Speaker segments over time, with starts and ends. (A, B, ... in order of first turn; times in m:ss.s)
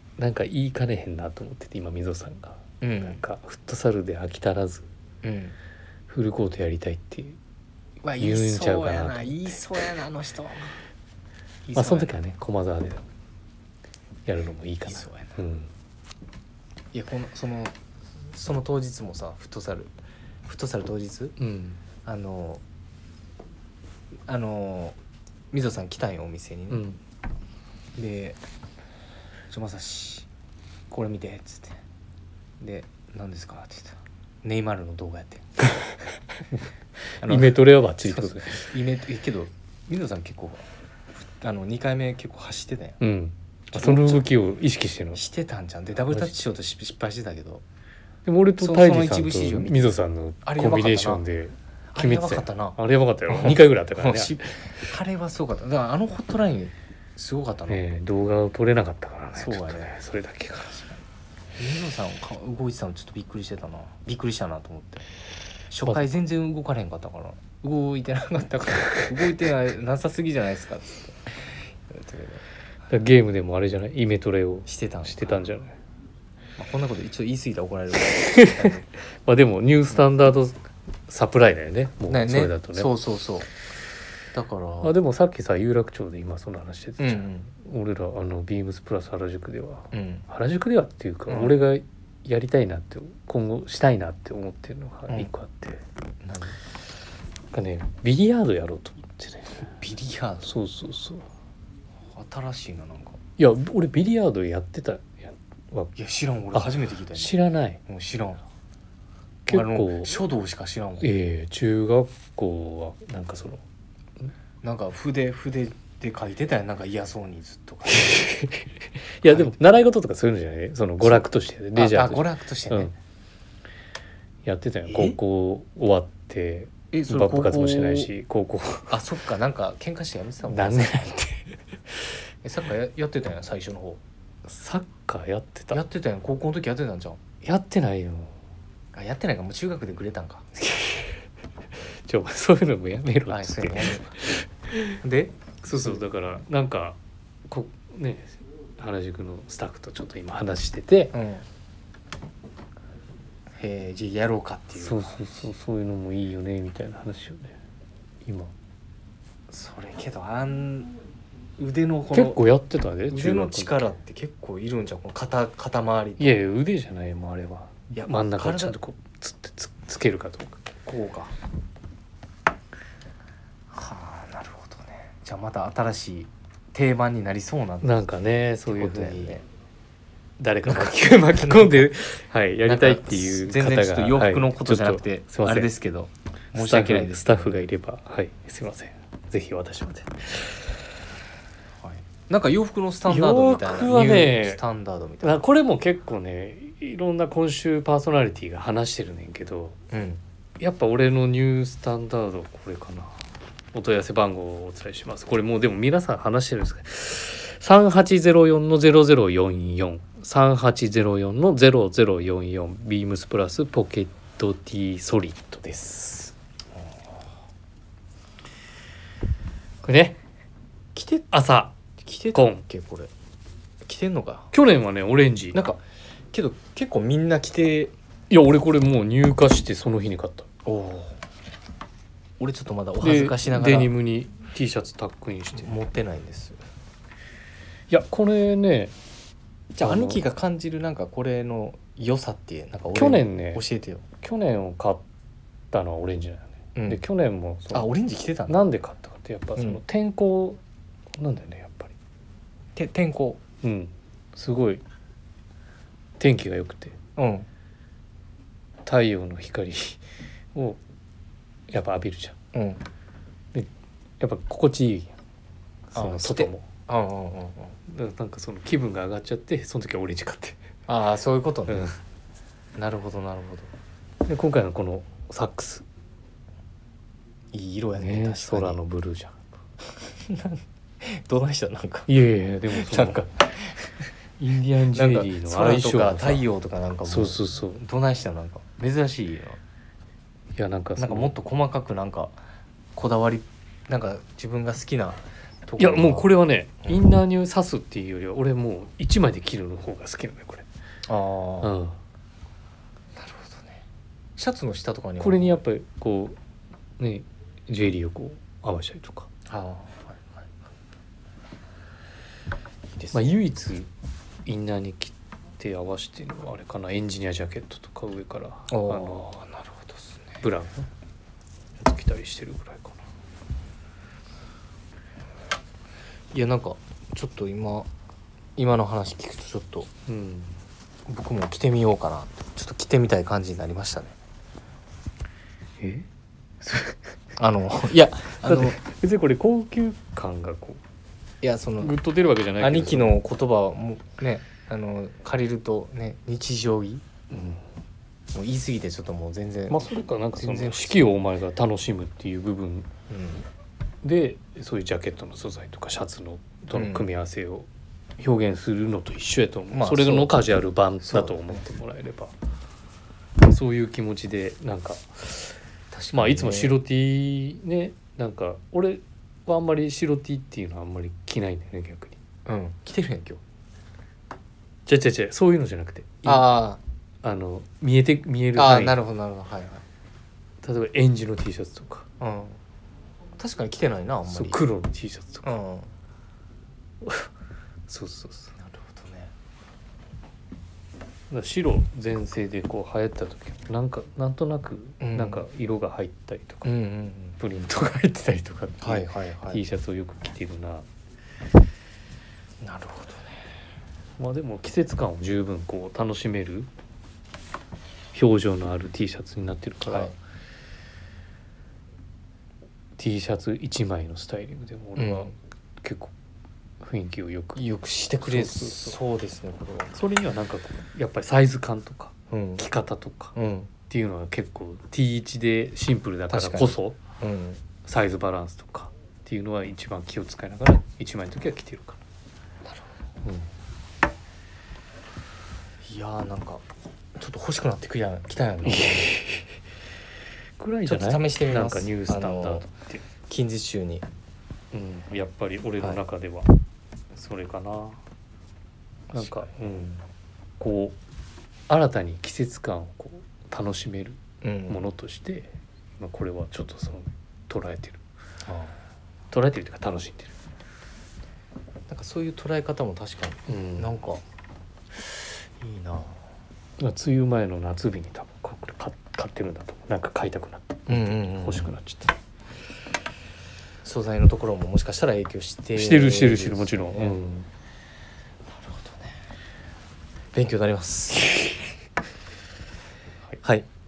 0:00.2-0:04.9 A
0:02.8-0:03.2 B
0:05.2-0:05.6 B
0:06.1-0:07.4 A
0:08.0-0:10.8 B
0:08.2-0:09.6 A
0:11.6-0:12.2 B
0:11.7-0:13.0 A
0:14.2-0:15.7 A
0:14.8-0:15.4 B
0:16.9-0:17.8 B
0:18.3-0:19.9 B
0:20.4-0:21.4 B
0:21.4-0:21.8 A
0:22.0-0:22.6 B
0:24.3-0:25.0 B
0:25.5-0:26.8 B
0:26.7-0:27.0 A
0:28.0-0:28.4 B
0:29.5-0:30.3 B
0:30.9-0:31.8 B
0:32.6-0:35.5 B
0:37.2-0:40.6 B
0:37.2-0:38.6 A
0:41.4-0:43.0 B
0:43.0-0:45.2 A
0:43.7-0:44.2 B
0:45.1-0:47.6 B
0:48.2-0:54.5 A
0:48.6-0:51.2 B
0:51.9-0:52.8 B
0:53.3-0:57.9 B
0:57.7-1:00.9 A
0:59.3-1:00.0 B
1:01.6-1:05.0 B
1:05.7-1:11.3 B
1:11.9-1:12.4 B
1:12.9-1:15.8 A
1:14.6-1:15.5 B
1:16.6-1:18.8 B
1:18.1-1:22.9 A
1:22.1-1:23.5 B
1:24.3-1:24.9 B
1:24.8-1:35.8 A
1:27.0-1:27.5 B
1:29.9-1:30.2 B
1:31.3-1:31.5 B
1:36.2-1:36.6 B
1:37.5-1:39.6 A
1:39.7-1:40.5 B
1:40.4-1:41.2 A
1:42.1-1:43.2 B
1:43.4-1:45.9 A
1:46.0-1:48.4 B
1:46.5-1:47.8 A
1:49.5-1:50.1 A
1:49.5-1:51.1 B
1:51.0-1:53.6 A
1:54.6-1:58.2 B
1:57.9-2:02.9 A
1:59.2-1:59.6 B
2:01.0-2:02.9 B
2:04.4-2:09.0 A
2:04.9-2:05.2 B
2:06.9-2:08.1 B
2:08.9-2:11.1 B
2:10.5-2:11.5 A
2:12.4-2:14.0 B
2:14.4-2:15.8 A
2:15.7-2:17.2 B
2:17.4-2:18.3 A
2:18.9-2:20.5 B
2:20.6-2:21.1 A
2:22.0-2:25.0 A
2:23.3-2:24.2 B
2:25.0-2:26.0 B
2:25.6-2:31.1 A
2:31.1-2:31.4 B
2:33.6-2:35.5 B
2:34.8-2:37.6 A
2:38.2-2:38.5 A
2:39.5-2:40.9 B
2:41.6-2:42.4 B
2:42.1-2:43.8 A
2:43.1-2:46.4 B
2:46.2-2:50.6 A
2:47.9-2:48.8 B
2:50.8-2:51.3 B
2:53.7-2:58.0 B
2:57.8-2:59.4 A
2:58.6-2:59.4 B
3:00.4-3:05.7 A
3:00.6-3:01.9 B
3:02.6-3:07.6 B
3:06.5-3:10.6 A
3:11.8-3:15.4 B
3:13.1-3:14.6 A
3:15.2-3:19.8 A
3:19.9-3:20.2 B
3:20.6-3:23.2 A
3:23.7-3:36.3 A
3:39.8-3:40.2 A
3:40.9-3:41.3 B
3:41.3-3:41.7 A
3:42.0-3:43.1 B
3:42.3-3:42.6 A
3:43.8-3:44.5 B
3:44.5-3:45.6 A
3:45.5-3:45.8 B
3:46.3-3:47.9 B
3:48.3-3:50.5 A
3:50.6-3:51.2 B
3:52.4-3:53.9 B
3:53.0-3:55.7 A
3:55.5-3:56.6 B
3:57.9-3:58.9 A
3:59.7-4:04.0 B
3:59.8-4:00.2 A
4:02.9-4:03.6 A
4:04.2-4:05.0 A
4:05.7-4:07.9 A
4:06.8-4:07.0 B
4:07.7-4:08.6 B
4:08.5-4:10.6 A
4:11.1-4:11.9 A
4:12.8-4:13.4 B
4:13.6-4:14.8 A
4:16.2-4:17.0 A
4:17.2-4:17.5 B
4:18.8-4:20.0 A
4:20.5-4:20.8 A
4:21.7-4:22.4 A
4:22.5-4:22.8 B
4:24.2-4:25.1 A
4:25.9-4:26.6 A
4:25.9-4:27.8 B
4:27.9-4:30.6 A
4:30.9-4:32.0 B
4:31.7-4:31.9 A
4:32.8-4:33.7 B
4:34.2-4:35.8 A
4:37.5-4:38.8 B
4:38.0-4:39.4 A
4:40.1-4:42.1 B
4:42.1-4:43.3 A
4:42.7-4:43.9 B
4:44.4-4:46.4 A
4:44.9-4:49.6 B
4:47.0-4:47.8 A
4:50.5-4:51.3 A
4:51.0-4:52.3 B
4:52.9-4:56.3 B
4:55.8-5:00.6 A
5:01.1-5:01.7 B
5:01.6-5:02.0 A
5:03.2-5:03.8 B
5:04.4-5:05.6 B
5:05.2-5:06.4 A
5:07.0-5:09.3 A
5:09.5-5:10.4 B
5:12.9-5:13.4 B
5:13.1-5:13.9 A
5:14.4-5:19.4 A
5:18.7-5:20.4 B
5:20.4-5:20.9 A
5:21.8-5:23.0 A
5:26.3-5:27.9 B
5:28.6-5:29.9 B
5:30.1-5:30.6 A
5:31.1-5:34.2 B
5:35.8-5:36.1 A
5:36.6-5:37.0 A
5:37.4-5:38.8 B
5:38.4-5:40.8 A
5:41.4-5:41.9 B
5:41.8-5:43.1 A
5:42.6-5:47.1 B
5:47.3-5:47.6 A
5:48.3-5:51.1 B
5:49.7-5:52.9 A
5:53.1-5:53.4 B
5:54.0-6:02.3 A
5:56.7-5:57.1 B
5:59.7-6:01.6 B
6:03.4-6:05.6 A
6:05.9-6:06.8 B
6:06.1-6:12.2 A
6:12.4-6:13.4 B
6:14.8-6:16.5 A
6:16.2-6:16.8 B
6:17.2-6:19.0 A
6:18.5-6:19.8 B
6:20.6-6:22.0 A
6:22.2-6:22.6 B
6:23.4-6:24.6 B
6:24.3-6:25.5 A
6:25.4-6:25.9 B
6:27.0-6:27.3 A
6:27.9-6:28.5 A
6:28.6-6:29.3 B
6:31.3-6:36.7 A
6:35.0-6:35.4 B
6:36.6-6:37.4 B
6:37.4-6:40.8 A
6:38.8-6:39.6 B
6:42.6-6:43.4 B
6:44.2-6:46.7 A
6:48.1-6:50.1 A
6:49.9-6:50.2 B
6:53.0-6:56.1 A
6:55.0-6:55.3 B
6:56.8-6:57.6 A
6:57.6-6:59.9 B
6:58.2-6:59.0 A
6:59.9-7:03.3 A
7:02.3-7:02.6 B
7:03.4-7:03.7 B
7:03.9-7:07.0 A
7:06.3-7:07.6 B
7:07.8-7:12.0 A
7:13.2-7:13.5 A
7:15.8-7:16.6 B
7:17.2-7:19.2 B
7:18.6-7:19.4 A
7:20.6-7:23.0 A
7:20.8-7:22.6 B
7:23.3-7:24.0 B
7:24.7-7:26.5 A
7:27.1-7:28.0 A
7:29.1-7:29.5 B
7:29.1-7:30.0 A
7:30.6-7:31.0 A
7:31.7-7:38.0 A
7:34.4-7:34.9 B
7:38.4-7:38.7 B
7:39.3-7:40.3 A
7:41.9-7:44.2 B
7:43.5-7:43.9 A
7:45.0-7:46.2 B
7:46.8-7:52.1 A
7:50.9-7:51.7 B
7:53.8-7:57.2 B
7:55.7-7:57.5 A
7:58.6-7:59.1 B
8:00.3-8:01.5 B